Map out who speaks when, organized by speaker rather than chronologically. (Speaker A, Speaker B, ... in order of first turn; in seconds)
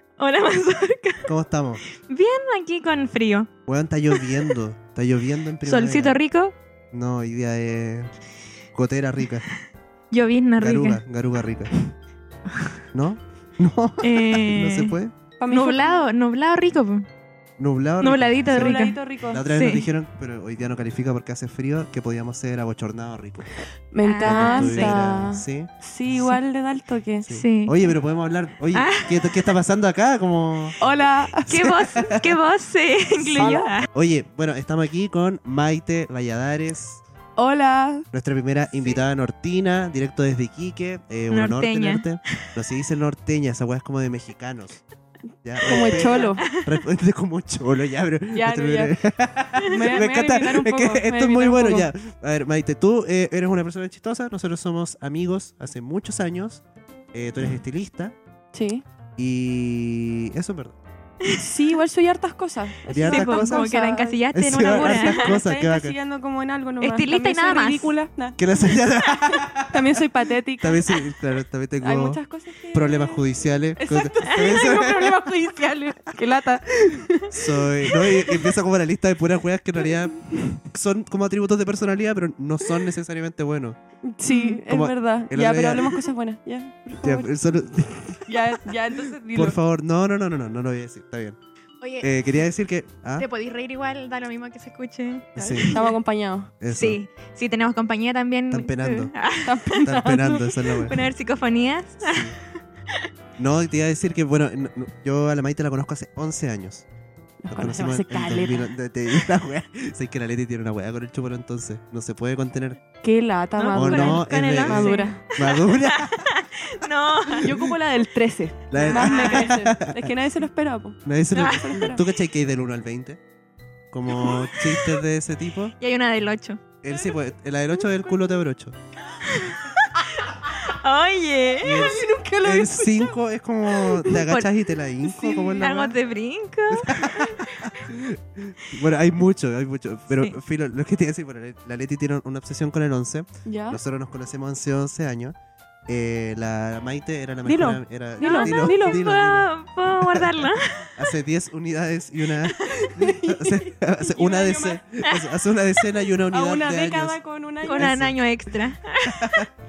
Speaker A: 0.2-1.3, 1.9-3.5, 5.6-6.5, 10.1-11.0, 14.0-14.9, 15.5-17.1, 18.0-19.8, 24.0-25.0, 27.3-27.9, 28.7-29.5, 31.5-33.9, 41.3-42.1, 46.4-46.6, 63.0-65.3, 66.8-67.9, 74.2-74.5, 84.3-84.6, 91.8-92.1, 93.2-95.9, 96.7-99.8, 100.8-102.3, 113.5-117.5, 118.8-119.6, 121.3-121.9, 124.1-125.0, 125.8-126.6, 129.1-132.0, 134.0-134.5, 135.1-137.7, 148.2-151.0, 157.6-159.4
Speaker B: 1.2-1.8, 3.6-6.2, 6.9-8.1, 8.7-9.4, 10.6-11.7, 12.9-15.1, 17.6-23.5, 24.2-25.7, 27.2-30.8, 31.5-32.4, 33.2-37.0, 38.1-44.8, 45.4-58.1, 59.2-60.8, 62.9-63.7, 64.3-66.0, 68.4-70.0, 70.6-72.2, 72.7-75.2, 77.3-83.8, 84.7-86.0, 87.0-88.3, 89.3-91.4, 92.0-93.2, 95.3-95.8, 96.6-97.0, 98.5-99.1, 99.8-101.0, 102.0-102.3, 103.4-106.9, 107.5-112.8, 113.7-116.2, 117.4-117.7, 118.7-120.1, 121.0-123.2, 123.9-125.7, 126.8-128.7, 131.6-136.0, 136.7-145.3, 145.9-157.2, 157.7-158.2, 159.0-159.5
Speaker C: 15.4-16.1, 18.5-19.4, 23.9-27.3, 30.8-31.9, 33.4-33.7, 37.4-38.0, 45.6-46.5, 48.3-49.0, 49.6-51.9, 58.5-58.8, 61.3-68.4, 69.2-70.9, 71.8-73.2, 73.8-78.5, 79.9-80.6, 84.1-87.3, 88.3-89.6, 95.4-96.5, 99.4-100.8, 107.4-108.7, 113.0-115.2, 117.4-122.0, 131.7-133.1, 133.9-134.2, 143.4-143.8, 147.4-149.0, 152.5-154.8, 156.3-158.1